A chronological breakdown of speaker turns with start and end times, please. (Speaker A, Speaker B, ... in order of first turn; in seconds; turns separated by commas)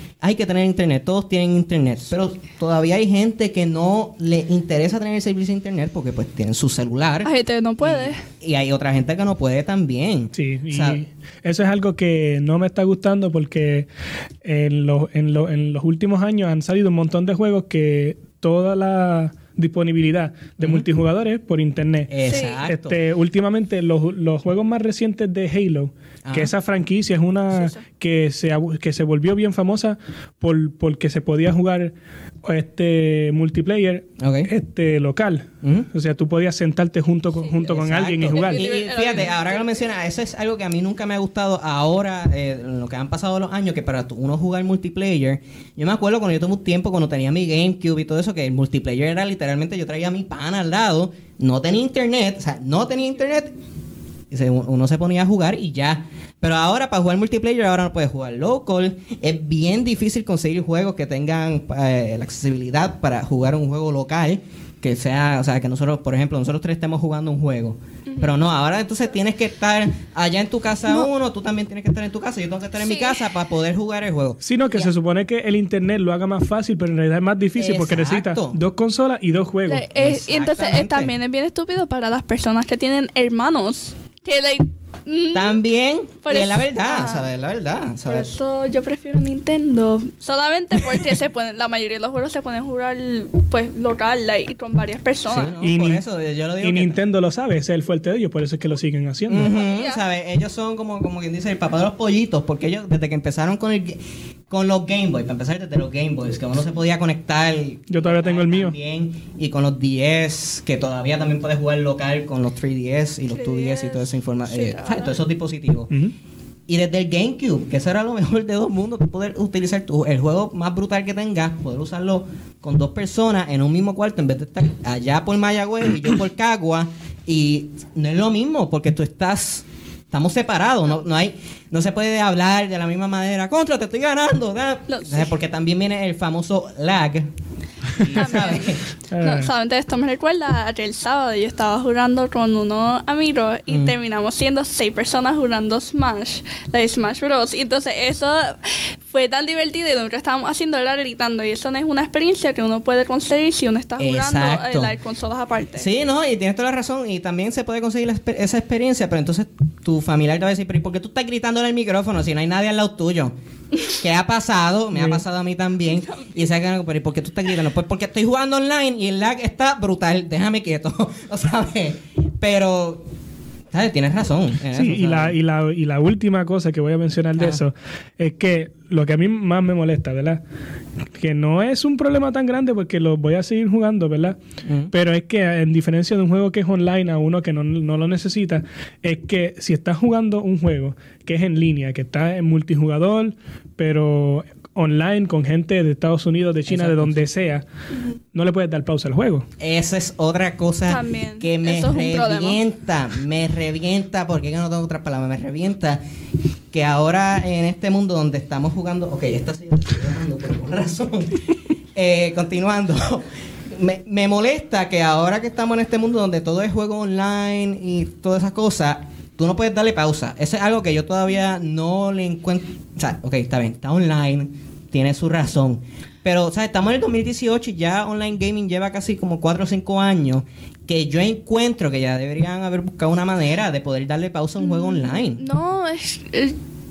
Speaker A: 0.2-7.3, Speaker B: 7.2-8.2, Speaker A: 7.8-11.0, Speaker C: 10.3-13.9, Speaker C: 14.4-22.1, Speaker A: 20.6-20.9, Speaker A: 22.1-22.9, Speaker B: 22.2-22.6, Speaker C: 22.6-38.7, Speaker A: 26.2-26.5, Speaker B: 27.5-27.8, Speaker A: 34.2-34.5, Speaker A: 35.6-35.9, Speaker A: 37.6-53.5, Speaker B: 38.3-39.7, Speaker A: 54.3-74.9, Speaker B: 68.1-68.3, Speaker B: 72.8-73.2, Speaker C: 74.4-79.9, Speaker A: 77.6-78.6, Speaker B: 79.7-85.6, Speaker A: 79.9-81.1, Speaker A: 85.3-88.3, Speaker B: 86.2-87.3, Speaker B: 88.0-95.5, Speaker A: 95.3-97.0, Speaker C: 95.6-96.0, Speaker C: 96.6-99.5, Speaker A: 99.3-115.9, Speaker B: 99.4-100.0, Speaker C: 107.9-108.7, Speaker B: 113.3-115.2, Speaker A: 116.7-137.3, Speaker B: 134.9-135.3, Speaker A: 138.0-138.8, Speaker B: 138.0-155.9, Speaker C: 139.1-139.5, Speaker A: 154.0-154.9, Speaker A: 155.8-163.3, Speaker A: 163.8-173.0, Speaker C: 164.9-165.2, Speaker B: 166.0-166.3, Speaker A: 173.7-175.3, Speaker C: 174.7-180.4, Speaker C: 181.2-184.4, Speaker A: 184.6-184.9, Speaker C: 184.9-197.6, Speaker A: 196.7-197.3, Speaker C: 198.3-199.5, Speaker A: 199.6-206.0, Speaker B: 200.9-202.6, Speaker A: 206.7-235.4, Speaker B: 234.6-236.6